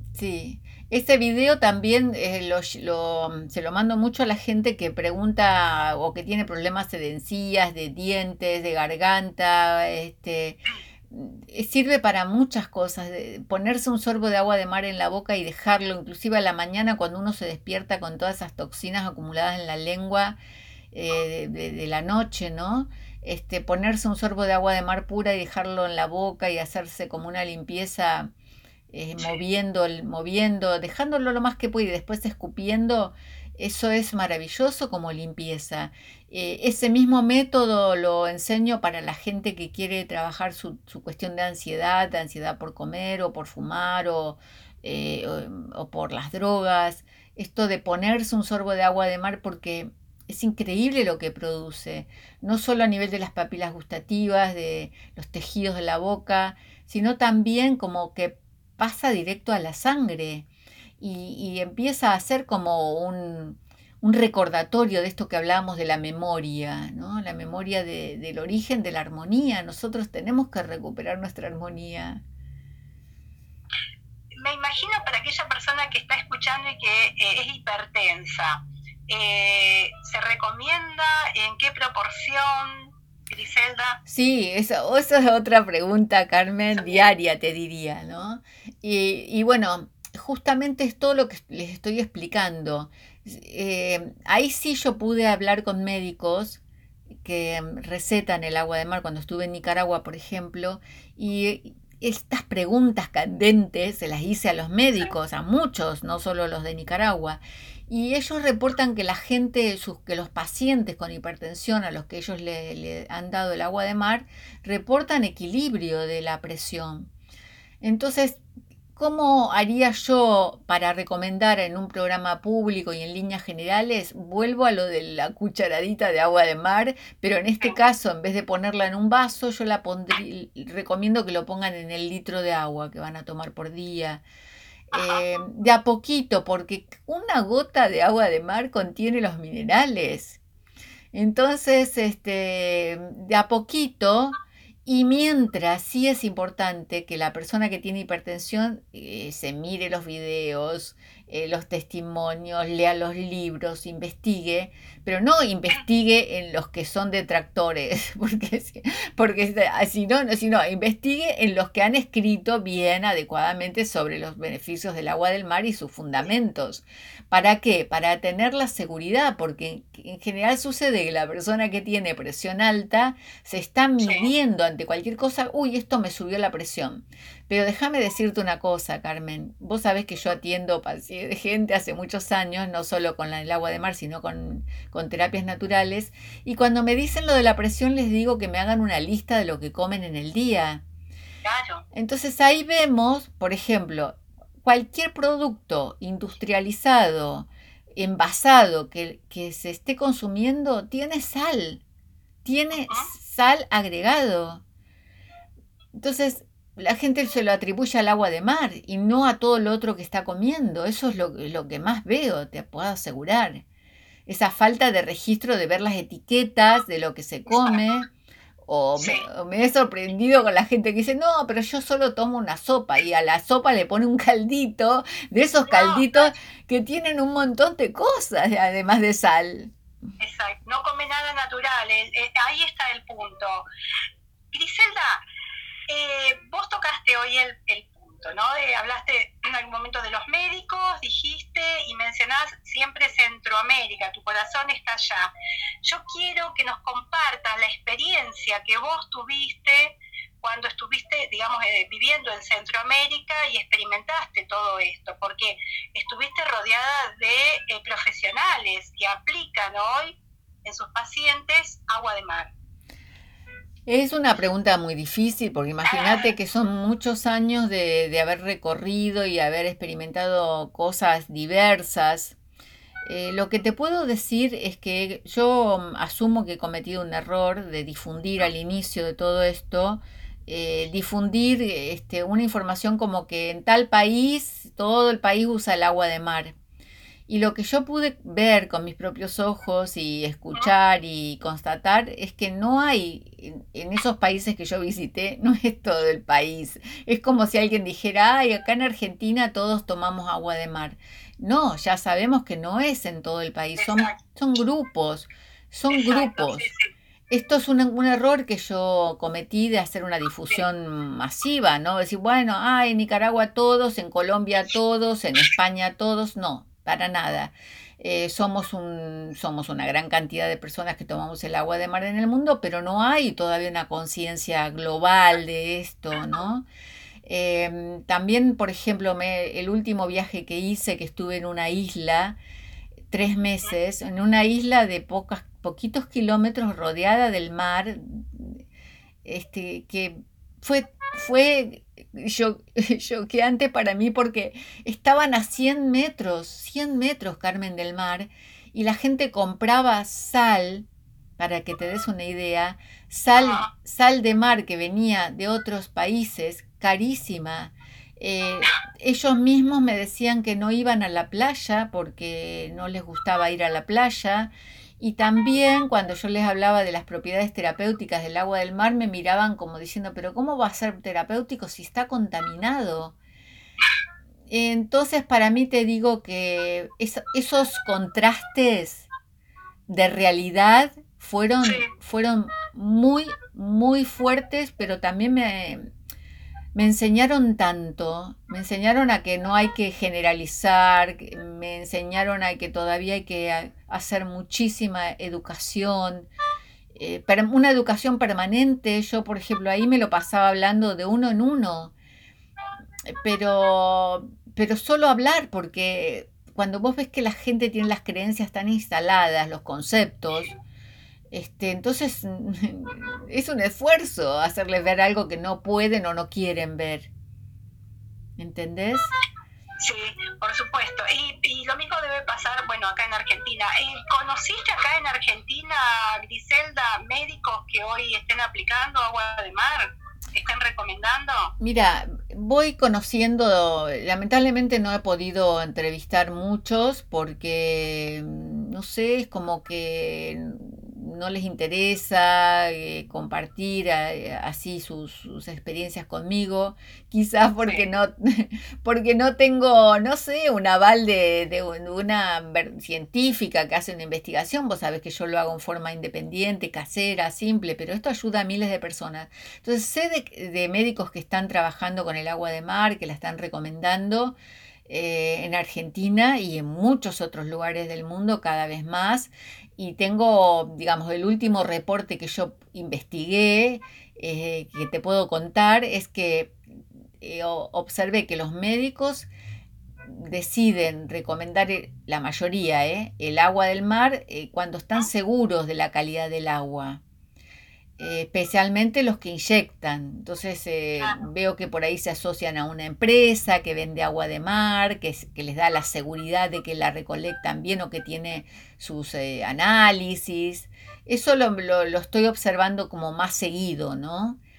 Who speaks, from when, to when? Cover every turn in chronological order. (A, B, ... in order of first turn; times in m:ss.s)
0:00.1-0:10.6 A
0:11.1-0:20.4 A
0:20.9-0:28.3 A
0:28.9-1:00.5 A
1:01.0-1:12.2 A
1:14.4-1:24.0 B
1:24.1-1:36.6 A
1:26.7-1:27.1 B
1:37.2-1:57.1 A
1:57.8-1:58.4 A
1:59.0-2:14.2 A
2:14.9-2:20.4 A
2:14.9-2:15.2 B
2:21.1-3:10.8 A
2:54.0-2:54.3 B
3:11.4-3:11.8 B
3:11.9-3:21.8 A
3:22.4-3:24.6 A
3:22.8-3:23.1 B
3:25.9-3:33.6 A
3:34.3-3:38.1 A
3:38.6-3:49.7 A
3:39.0-3:39.3 B
3:45.7-3:46.1 B
3:50.2-3:53.6 B
3:54.5-3:55.2 B
3:55.9-4:05.3 B
4:05.8-4:22.5 B
4:23.9-4:32.4 A
4:25.8-4:26.3 B
4:33.1-4:46.6 A
4:47.3-5:06.7 A
5:03.8-5:04.2 B
5:05.9-5:06.9 B
5:07.3-5:26.7 A
5:27.2-5:32.4 A
5:33.1-5:38.6 A
5:39.2-5:50.9 A
5:51.4-6:13.2 A
5:53.4-5:53.7 B
6:14.5-6:19.1 A
6:19.9-6:25.9 A
6:21.6-6:21.9 B
6:26.8-6:36.3 A
6:37.0-6:41.9 A
6:43.1-6:50.5 A
6:51.3-6:57.1 A
6:58.4-6:59.1 A
6:59.8-7:11.5 B
7:11.6-7:44.4 A
7:27.6-7:27.9 B
7:44.9-7:56.6 A
7:57.2-7:59.3 A
8:00.0-8:07.0 A
8:08.0-8:24.4 A